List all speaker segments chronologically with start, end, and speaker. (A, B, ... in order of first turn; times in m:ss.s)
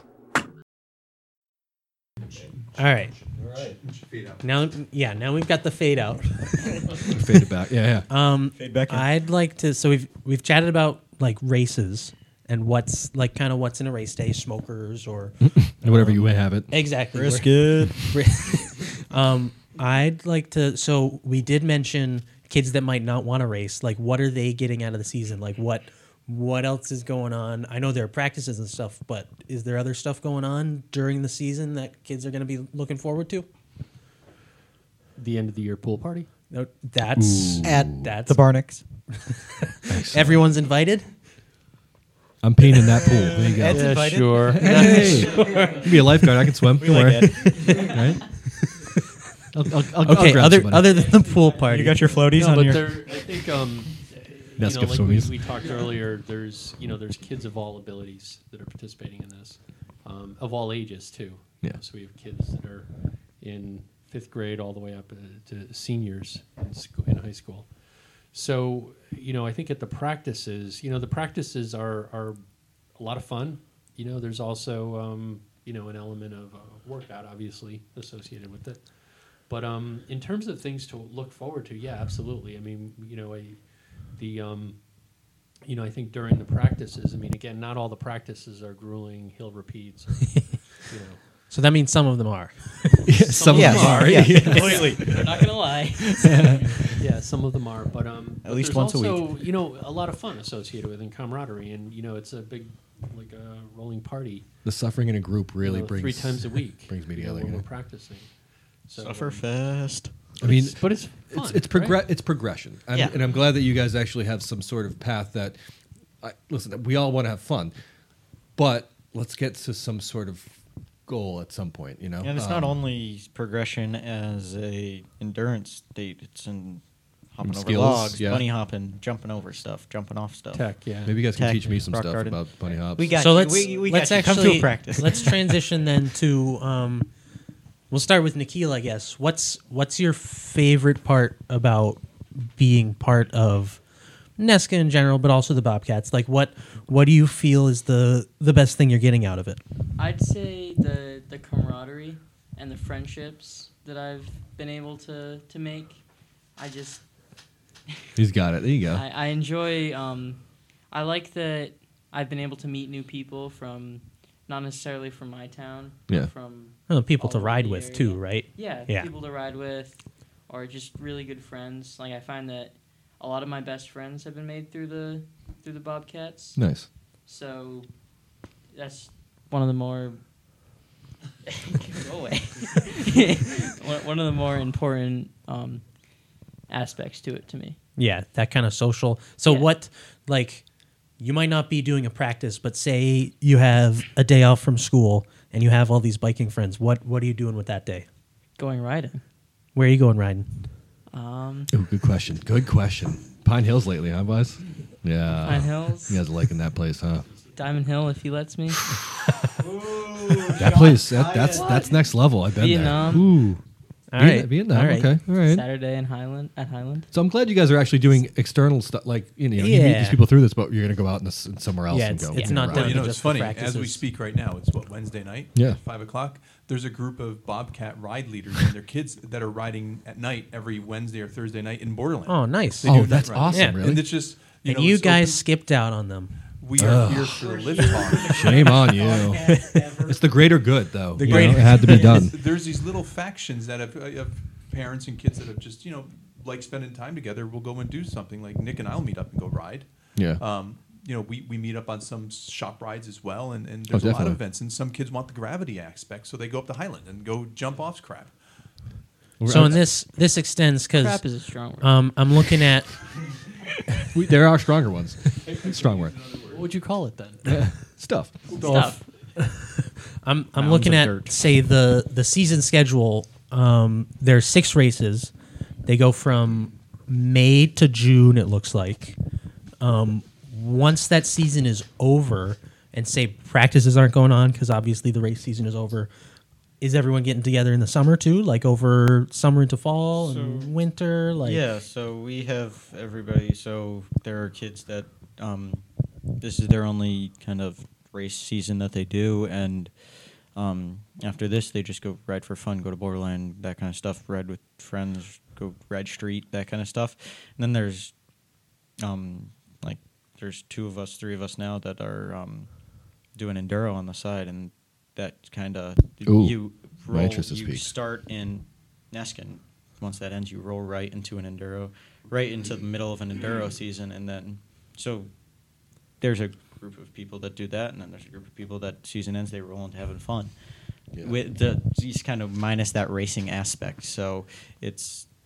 0:02.4-0:04.4 A
0:02.8-0:03.1 B
0:04.4-0:07.2 B
0:07.0-0:08.1 C
0:08.1-0:33.5 B
0:08.6-0:09.1 D
0:15.4-0:16.7 C
0:17.1-0:18.2 D
0:35.2-0:36.3 E
0:36.5-0:38.4 B
0:37.1-0:38.1 C
0:37.6-0:38.8 D
0:39.9-0:40.4 C
0:40.0-0:41.1 B
0:42.4-0:48.4 C
0:42.7-0:45.9 D
0:43.7-0:45.8 E
0:44.6-0:45.6 B
0:45.4-0:45.8 F
0:46.7-0:48.0 D
0:49.5-0:51.0 C
0:50.0-0:52.1 B
0:50.8-0:52.2 F
0:51.6-0:53.2 D
0:52.3-1:12.4 E
0:54.6-0:55.4 C
1:12.9-1:24.8 E
1:25.6-1:31.2 E
1:31.5-1:33.1 B
1:33.0-1:35.3 C
1:33.3-1:35.0 E
1:33.5-1:35.3 D
1:33.7-1:34.6 B
1:34.6-1:36.7 F
1:36.2-1:36.8 C
1:36.9-1:44.4 E
1:38.4-1:39.3 D
1:44.6-1:47.6 C
1:45.6-1:49.4 E
1:49.0-1:50.1 D
1:50.4-1:52.0 E
1:50.4-1:55.6 C
1:52.9-1:53.3 D
1:56.2-1:57.7 C
1:58.6-2:02.8 C
2:02.2-2:06.8 D
2:07.3-2:15.5 D
2:07.4-2:08.4 C
2:10.5-2:11.2 E
2:11.0-2:13.1 C
2:13.2-2:17.1 B
2:14.3-2:14.6 C
2:17.9-2:23.8 B
2:24.4-2:29.6 B
2:30.0-2:36.0 F
2:36.6-2:37.0 F
2:38.2-2:39.0 C
2:38.9-2:56.6 F
2:46.9-2:49.1 B
2:56.6-2:56.9 C
2:57.2-2:57.9 F
2:58.7-3:00.2 F
3:01.5-3:05.8 F
3:06.7-3:07.8 F
3:08.0-3:10.6 B
3:09.4-3:09.7 F
3:11.2-3:18.1 B
3:18.6-3:19.2 F
3:19.7-3:20.5 B
3:21.1-3:21.7 F
3:21.7-3:27.3 C
3:25.4-3:26.2 F
3:27.3-3:27.8 E
3:27.5-3:28.9 F
3:29.5-3:32.0 D
3:30.5-3:33.6 C
3:31.5-3:33.4 F
3:34.1-3:35.1 B
3:34.2-3:35.6 C
3:35.4-3:37.1 F
3:37.1-3:43.1 C
3:39.6-3:40.2 B
3:41.9-3:44.0 B
3:42.6-3:55.4 A
3:52.3-3:53.8 B
3:52.8-3:54.1 C
3:54.6-3:56.4 B
3:56.6-3:59.1 A
3:56.8-3:57.5 C
3:57.3-4:00.5 D
3:58.2-4:02.4 C
3:59.5-3:59.8 B
4:01.2-4:02.1 B
4:01.2-4:18.3 A
4:01.8-4:02.3 D
4:10.1-4:10.4 C
4:13.9-4:14.4 C
4:19.4-4:19.9 C
4:19.4-4:22.9 B
4:20.9-4:22.1 F
4:24.1-4:26.1 C
4:25.4-4:26.7 A
4:26.5-4:27.9 E
4:27.4-4:28.4 C
4:28.5-4:29.0 E
4:28.6-4:29.0 F
4:29.4-4:35.3 B
4:30.6-4:31.3 D
4:35.8-4:39.2 B
4:39.8-4:46.1 B
4:46.8-4:51.6 B
4:50.1-4:50.7 D
4:51.4-4:55.8 D
4:56.4-5:08.1 D
5:09.0-5:12.7 D
5:13.3-5:25.3 D
5:16.2-5:17.9 C
5:26.2-5:30.5 D
5:31.2-5:35.3 D